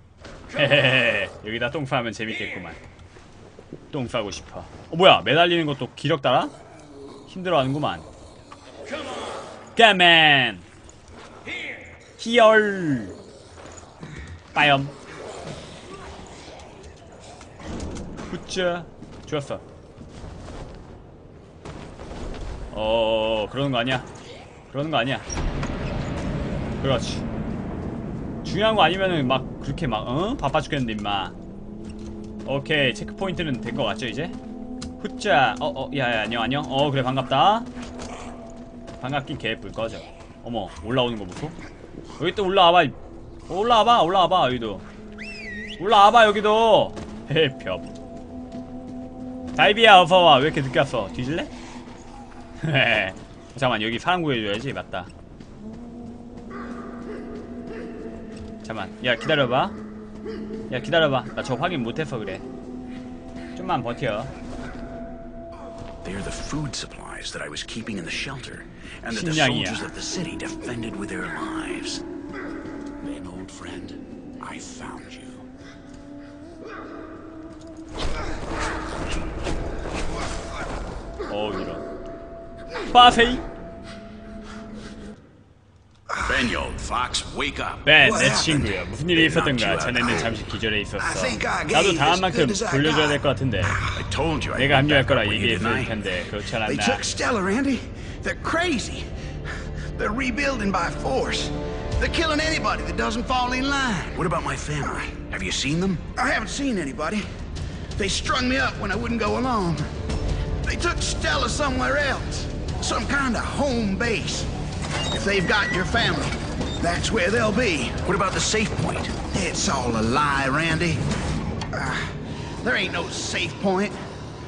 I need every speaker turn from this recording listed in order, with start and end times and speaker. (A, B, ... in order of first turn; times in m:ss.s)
0:00.5-0:02.8 A
0:03.9-0:06.5 A
0:07.3-0:08.1 A
0:09.7-0:10.6 A
0:12.2-0:13.2 A
0:14.5-0:14.9 A
0:18.3-0:19.6 A
0:22.7-0:24.1 A
0:24.7-0:25.3 A
0:26.8-0:27.2 A
0:28.4-0:31.4 A
0:32.4-0:34.4 A
0:35.0-0:37.7 A
0:39.0-0:41.6 A
0:42.2-0:42.9 A
0:43.5-0:44.8 A
0:45.8-0:47.9 A
0:49.6-0:51.5 A
0:52.6-0:55.1 A
0:58.6-0:59.8 A
1:00.7-1:02.4 A
1:03.5-1:04.3 A
1:06.0-1:12.0 B
1:09.1-1:09.9 A
1:13.0-1:15.5 B
1:21.3-1:21.8 A
1:22.9-1:23.4 A
1:26.2-1:30.3 B
1:27.8-1:33.8 A
1:28.0-1:28.5 C
1:31.0-1:31.6 C
1:31.3-1:32.8 B
1:32.6-1:33.2 C
1:33.9-1:39.0 B
1:34.6-1:37.1 A
1:40.0-1:41.4 C
1:41.0-1:41.4 B
1:42.0-1:44.0 C
1:43.2-1:47.2 B
1:46.3-1:47.1 C
1:48.0-1:49.8 C
1:48.0-1:48.6 B
1:49.4-1:49.8 B
1:50.6-1:54.4 C
1:52.3-1:54.3 B
1:55.1-1:57.9 C
1:57.8-1:59.3 B
1:59.3-2:01.0 C
2:01.7-2:03.9 C